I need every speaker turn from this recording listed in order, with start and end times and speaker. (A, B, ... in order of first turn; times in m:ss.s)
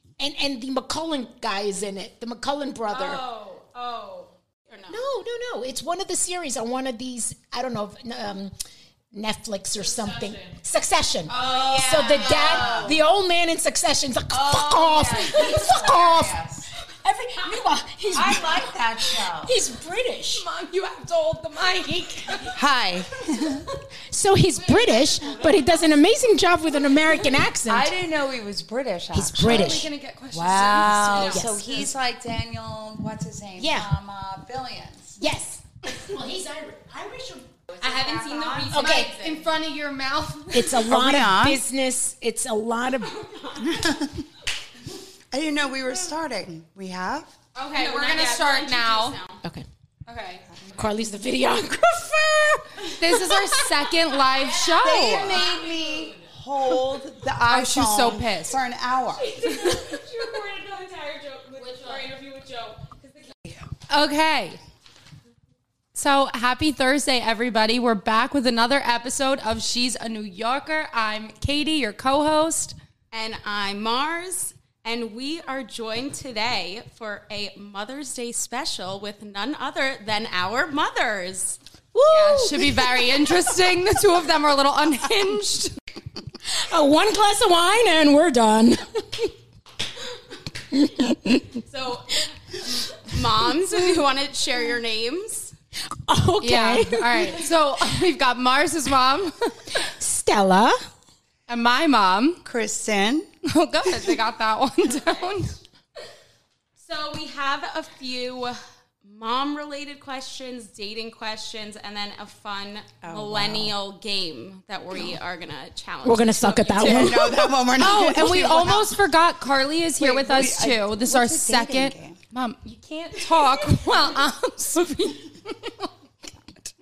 0:00.2-0:03.2 A
0:02.9-0:05.0 B
0:04.9-0:08.5 A
0:09.1-0:20.4 A
0:09.8-0:10.6 C
0:11.3-0:12.9 B
0:11.3-0:13.0 D
0:14.3-0:16.7 D
0:18.1-0:19.5 D
0:20.3-0:22.6 C
0:22.5-0:23.6 D
0:24.1-0:27.9 A
0:24.5-0:25.9 C
0:27.1-0:27.4 C
0:27.7-0:35.2 D
0:29.1-0:29.9 A
0:29.3-0:31.9 C
0:30.8-0:31.9 A
0:33.6-0:33.9 A
0:35.2-0:37.5 A
0:37.8-0:40.9 C
0:37.8-0:39.4 B
0:38.7-0:39.1 A
0:40.5-0:43.1 A
0:40.8-0:41.6 D
0:43.0-0:43.9 B
0:43.6-0:44.2 D
0:45.3-0:47.3 D
0:47.6-0:49.4 B
0:47.6-0:49.2 C
0:50.1-0:50.5 C
0:50.7-0:53.9 A
0:52.9-0:56.1 C
0:54.4-0:56.0 B
0:54.8-0:59.3 D
0:57.5-0:58.6 C
0:59.2-1:00.4 C
0:59.2-1:03.4 B
1:01.6-1:02.2 C
1:03.9-1:04.6 C
1:06.0-1:12.8 C
1:13.1-1:21.6 B
1:21.9-1:23.1 A
1:22.1-1:25.8 C
1:26.5-1:29.3 A
1:30.7-1:31.6 A
1:31.6-1:35.5 B
1:36.1-1:37.4 A
1:36.4-1:39.8 C
1:39.7-1:40.8 A
1:41.5-1:42.4 C
1:42.4-1:43.3 D
1:43.4-1:45.6 C
1:46.8-1:57.2 B
1:53.0-1:53.8 D
1:56.0-1:57.5 A
1:56.8-1:59.0 D
1:57.8-2:05.9 C
2:00.0-2:02.2 D